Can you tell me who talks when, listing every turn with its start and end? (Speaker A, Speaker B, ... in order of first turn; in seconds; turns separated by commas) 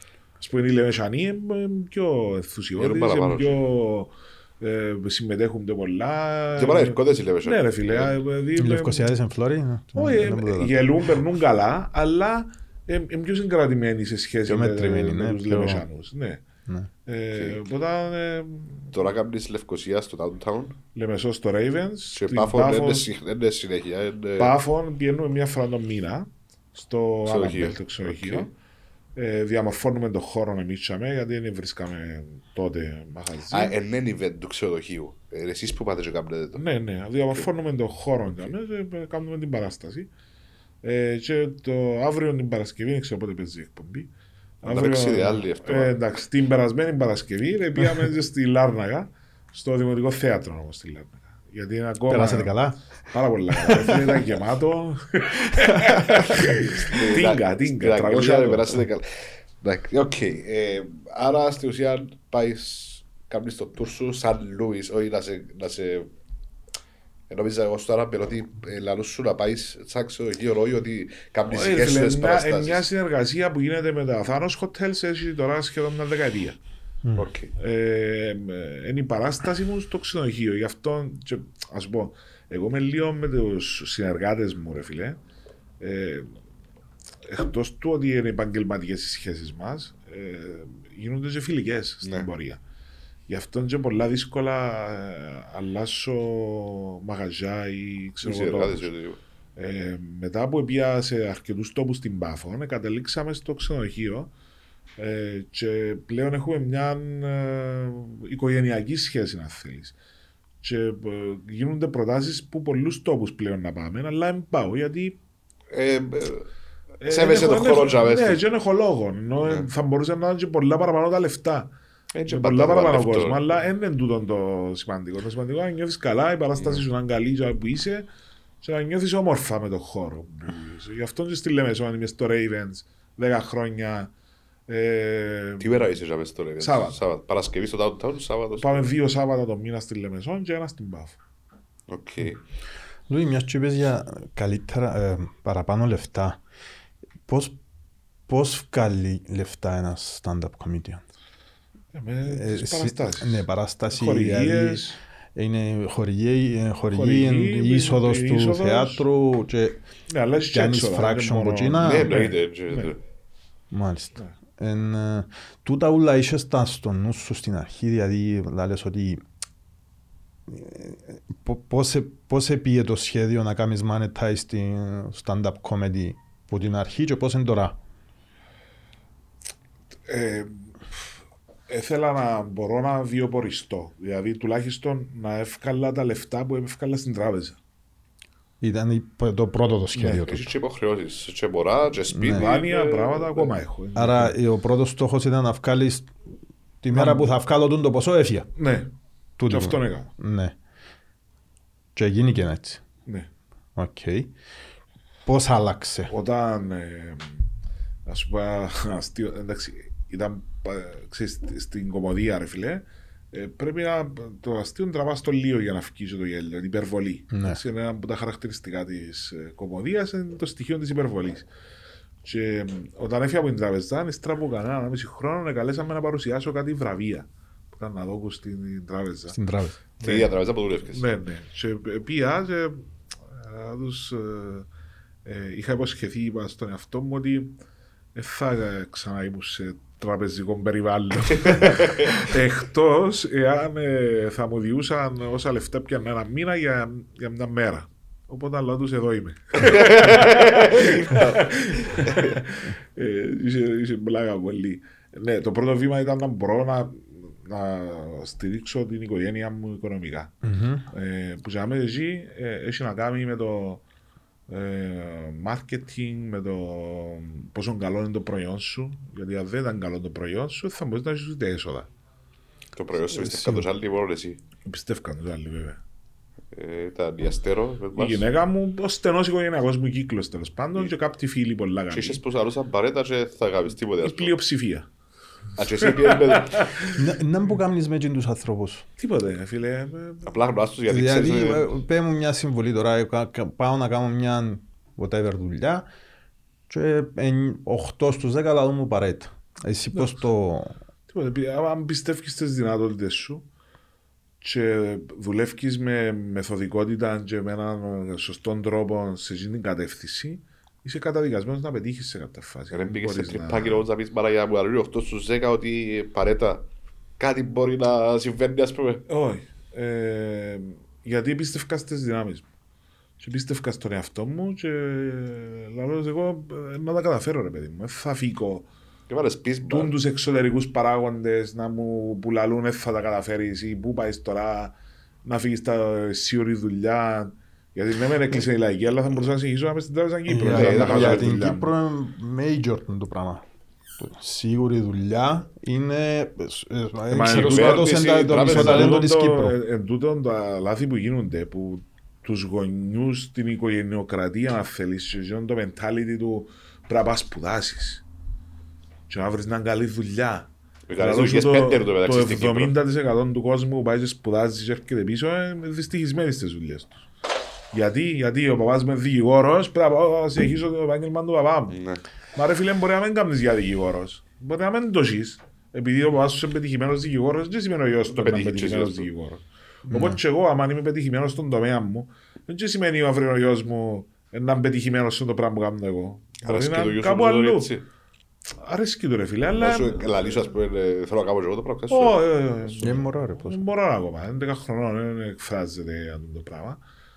Speaker A: 0.4-9.1, Speaker B: 2.8-3.6, Speaker B: 6.6-8.2, Speaker C: 8.6-10.9, Speaker A: 9.9-16.4, Speaker C: 14.5-15.9, Speaker A: 17.1-19.0, Speaker B: 17.3-17.6, Speaker B: 18.9-20.8, Speaker A: 20.9-23.1, Speaker B: 22.1-24.6, Speaker A: 24.4-28.5, Speaker B: 27.3-28.5, Speaker A: 29.2-33.8, Speaker B: 33.5-36.6, Speaker A: 36.5-40.1, Speaker A: 40.8-44.1, Speaker A: 44.6-52.6, Speaker B: 44.6-46.0, Speaker C: 52.1-52.8, Speaker A: 53.1-58.8, Speaker C: 53.6-54.1, Speaker C: 55.5-56.1, Speaker B: 56.9-66.1, Speaker B: 67.3-72.9, Speaker A: 71.5-76.6, Speaker B: 77.2-77.5, Speaker A: 77.6-85.2, Speaker A: 85.8-86.3, Speaker A: 87.3-92.6, Speaker B: 92.0-92.3, Speaker A: 93.3-98.9, Speaker B: 98.2-99.2, Speaker A: 99.6-104.3, Speaker A: 105.0-110.0, Speaker A: 110.6-115.2, Speaker B: 115.7-116.5, Speaker A: 117.0-121.7, Speaker B: 117.0-118.4, Speaker B: 122.1-123.4, Speaker A: 122.3-128.1, Speaker B: 126.6-126.8, Speaker A: 128.6-134.1, Speaker A: 134.7-135.9, Speaker B: 135.6-138.9, Speaker A: 136.6-137.0, Speaker A: 138.6-141.2, Speaker B: 141.9-142.4, Speaker C: 143.1-146.4, Speaker C: 147.3-147.6, Speaker C: 148.3-151.0, Speaker A: 151.9-155.0, Speaker C: 152.3-154.8, Speaker C: 155.3-159.8, Speaker A: 156.9-159.0, Speaker A: 160.1-162.9, Speaker C: 160.5-162.2, Speaker B: 161.8-163.0, Speaker C: 163.7-169.2, Speaker C: 170.5-177.8, Speaker A: 180.1-181.1, Speaker A: 181.7-187.6, Speaker C: 188.6-190.5, Speaker A: 190.0-190.3, Speaker B: 190.1-193.5, Speaker C: 192.1-192.5, Speaker A: 192.3-194.4, Speaker C: 194.0-196.1, Speaker C: 196.8-198.5, Speaker A: 196.9-197.3, Speaker A: 198.6-198.9, Speaker C: 199.4-200.6, Speaker A: 199.5-200.1, Speaker C: 202.0-202.8, Speaker C: 203.8-204.3, Speaker C: 205.3-206.1, Speaker A: 206.1-207.5, Speaker A: 208.1-221.5, Speaker C: 217.3-217.6, Speaker A: 222.2-229.4, Speaker C: 229.3-229.8, Speaker A: 230.0-234.7, Speaker B: 230.0-231.1, Speaker A: 235.2-237.6, Speaker A: 238.2-260.4, Speaker B: 241.3-242.1, Speaker B: 249.6-252.4, Speaker C: 260.4-260.9, Speaker A: 260.9-263.8, Speaker A: 264.5-271.9, Speaker B: 272.8-274.4, Speaker C: 273.2-273.6, Speaker A: 274.6-275.8, Speaker B: 276.5-278.3, Speaker A: 278.0-282.2, Speaker B: 281.9-284.4, Speaker A: 284.0-284.9, Speaker B: 285.6-286.7, Speaker A: 285.8-286.9, Speaker C: 286.9-288.9, Speaker A: 289.0-290.4, Speaker B: 290.3-291.8, Speaker C: 290.9-295.9, Speaker C: 296.7-300.8, Speaker A: 301.1-303.5, Speaker A: 304.4-313.9, Speaker B: 312.7-316.7, Speaker B: 317.2-319.0, Speaker A: 319.1-322.5, Speaker A: 323.2-328.7, Speaker B: 329.1-330.0, Speaker A: 329.7-341.7, Speaker C: 340.3-343.4, Speaker B: 340.5-341.3, Speaker C: 344.0-349.6, Speaker A: 347.1-358.0, Speaker B: 347.3-349.1, Speaker A: 359.1-367.1, Speaker B: 360.9-362.8, Speaker A: 367.7-371.8, Speaker B: 371.7-372.0, Speaker A: 372.4-387.7, Speaker B: 378.1-379.1, Speaker C: 379.9-380.2, Speaker B: 386.4-387.9, Speaker A: 388.6-390.5, Speaker B: 389.5-392.9, Speaker A: 391.9-396.8, Speaker C: 392.8-393.6